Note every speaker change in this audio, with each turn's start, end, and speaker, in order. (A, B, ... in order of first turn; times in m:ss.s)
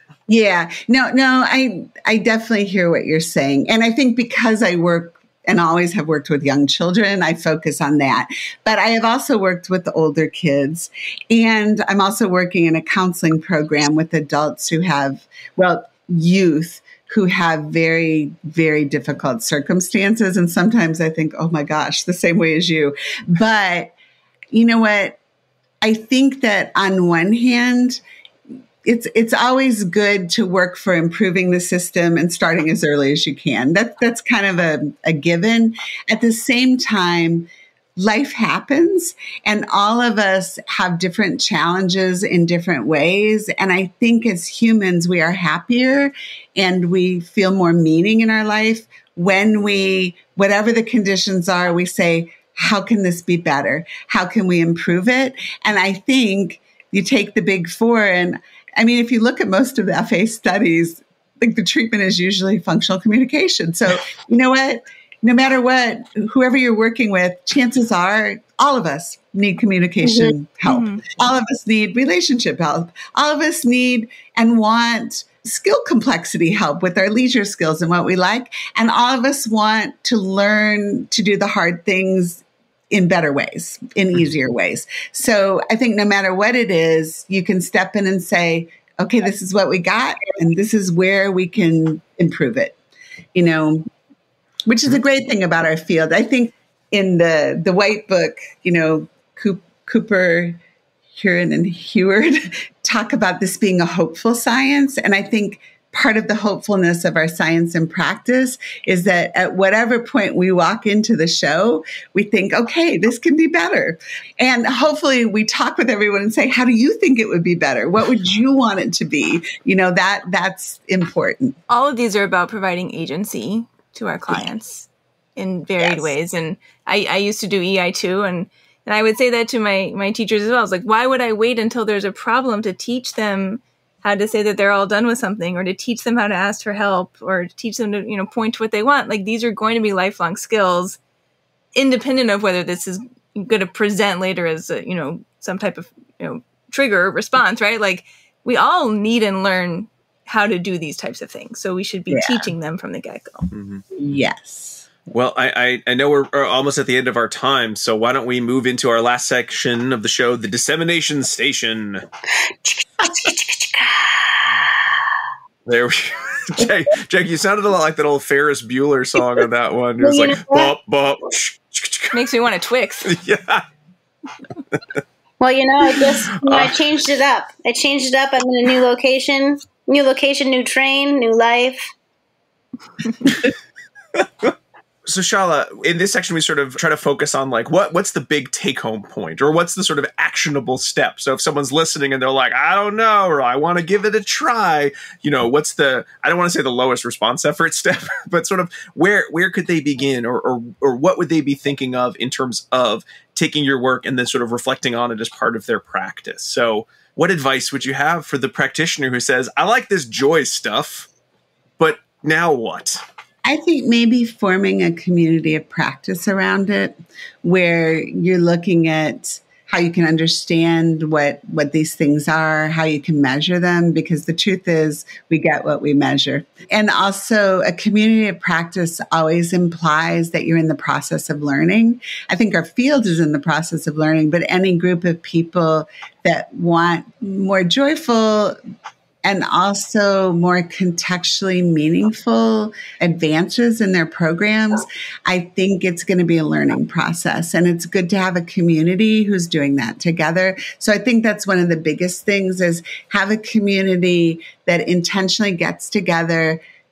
0:00.3-0:23.9 A
0:24.5-0:25.2 A
0:25.8-0:28.0 A
0:28.8-1:32.8 A
1:10.0-1:10.3 B
1:10.6-1:11.0 C
1:33.3-1:33.8 A
1:34.6-1:40.6 A
1:41.2-2:01.6 A
2:01.7-2:21.0 C
2:05.8-2:06.1 A
2:21.7-2:33.5 C
2:32.1-2:32.5 A
2:33.5-2:33.8 D
2:34.0-2:34.9 A
2:35.1-2:42.0 D
2:42.4-2:45.0 B
2:45.6-2:52.2 D
2:50.0-2:50.7 B
2:52.1-2:53.1 C
2:53.0-2:53.6 D
2:55.4-3:01.8 B
2:56.0-2:56.8 D
3:04.1-3:04.5 D
3:05.0-3:31.1 D
3:31.8-3:33.0 D
3:33.4-3:58.6 A
3:59.2-4:16.6 A